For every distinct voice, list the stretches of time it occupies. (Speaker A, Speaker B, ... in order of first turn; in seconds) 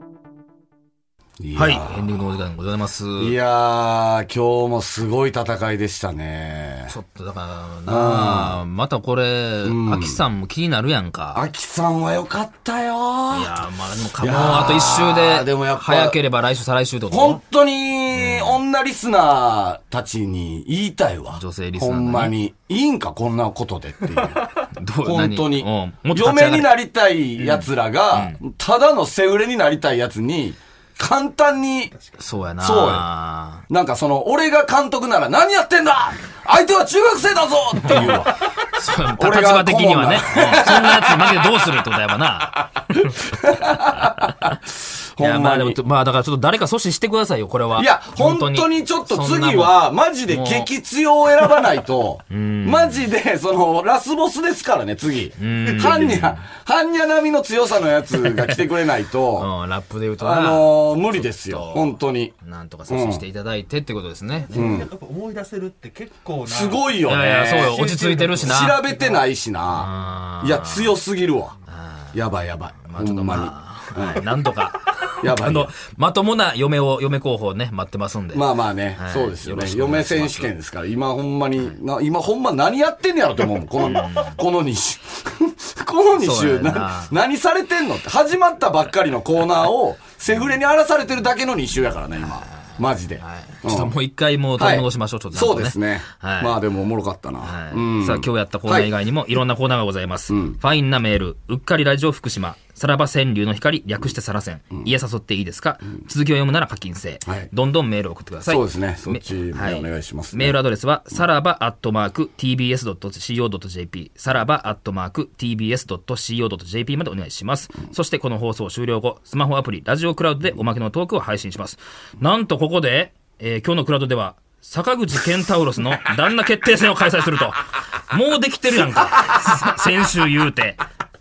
Speaker A: 1.4-2.1, 3.2-7.0, 7.9-8.6, 9.6-10.2, 11.3-13.6, 14.2-16.2, 17.1-24.4, 25.0-31.9, 32.6-33.1, 33.7-38.4, 39.2-41.5, 43.2-44.5, 45.2-45.8, 47.8-59.5, 60.2-62.3, 62.9-63.2, 64.5-64.9, 66.5-67.8, 68.4-71.5, 72.1-74.2, 75.2-75.7, 78.3-93.9, 94.6-98.9, 100.3-100.6, 108.5-110.5
Speaker B: 1.5-3.3, 6.9-11.4, 13.3-17.4, 18.1-18.6, 21.3-22.3, 24.8-26.7, 27.4-28.4, 32.2-33.6, 37.9-43.1, 45.2-50.7, 52.3-53.1, 55.4-56.4, 58.2-58.6, 59.4-64.6, 67.0-68.8, 69.7-70.9, 71.7-72.1, 72.8-80.5, 83.8-84.4, 86.2-87.1, 93.2-96.6, 97.4-130.8
Speaker C: 31.9-32.2, 55.6-56.1, 64.4-67.0, 67.6-69.2